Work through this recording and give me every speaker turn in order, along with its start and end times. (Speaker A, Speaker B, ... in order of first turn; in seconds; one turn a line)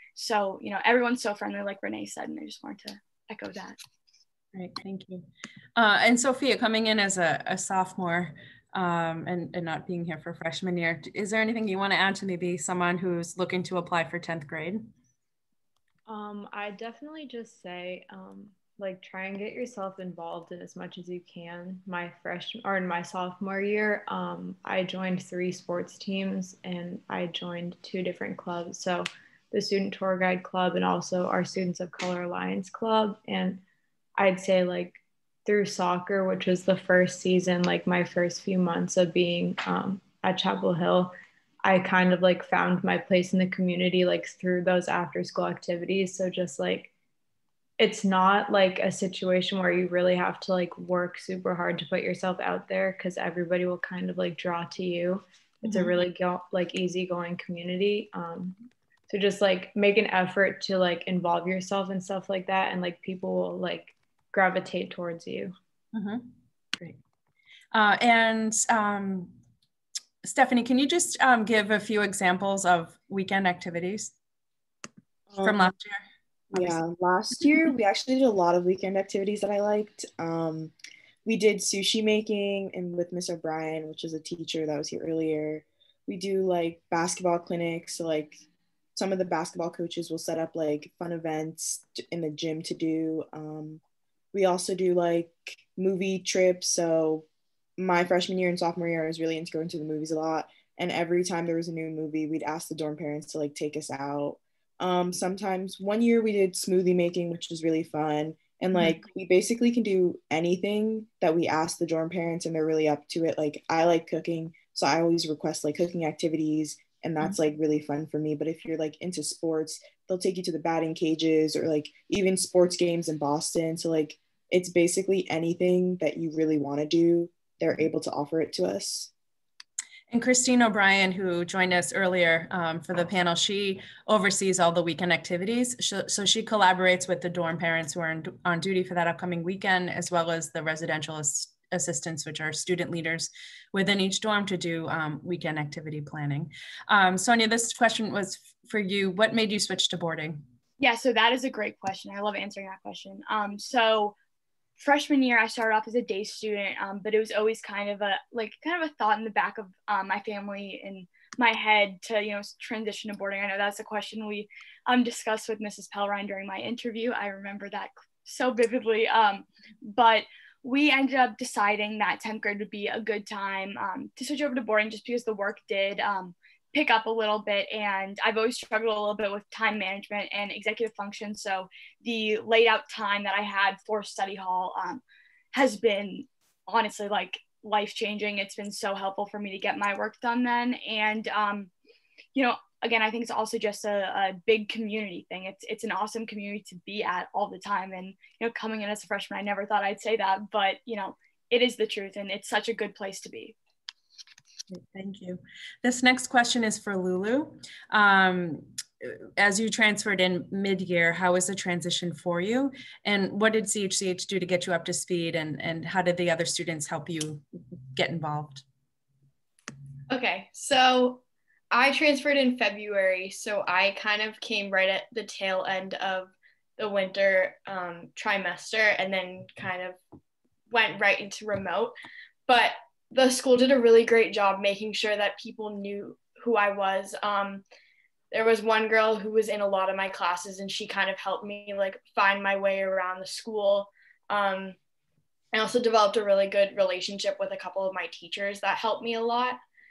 Speaker A: 0.1-3.8
Speaker B: 4.5-14.9
Speaker C: 16.1-33.6
Speaker C: 34.1-41.1
Speaker C: 41.6-46.9
Speaker C: 47.8-65.5
Speaker B: 55.6-56.0
Speaker B: 65.9-66.2
Speaker B: 67.7-69.3
Speaker B: 70.2-74.1
Speaker D: 75.3-75.7
Speaker B: 75.4-76.0
Speaker B: 76.5-76.8
Speaker D: 76.5-80.7
Speaker D: 81.2-88.4
Speaker D: 88.9-93.8
Speaker D: 94.3-97.2
Speaker D: 97.8-129.1
Speaker B: 108.7-109.0
Speaker B: 130.1-150.4
Speaker A: 150.8-154.1
Speaker A: 154.8-185.0
Speaker A: 185.5-191.7
Speaker A: 192.3-203.5
Speaker B: 204.7-218.6
Speaker E: 220.1-230.0
Speaker E: 230.7-231.9
Speaker E: 232.5-237.6
Speaker E: 238.3-244.8
Speaker E: 245.5-249.6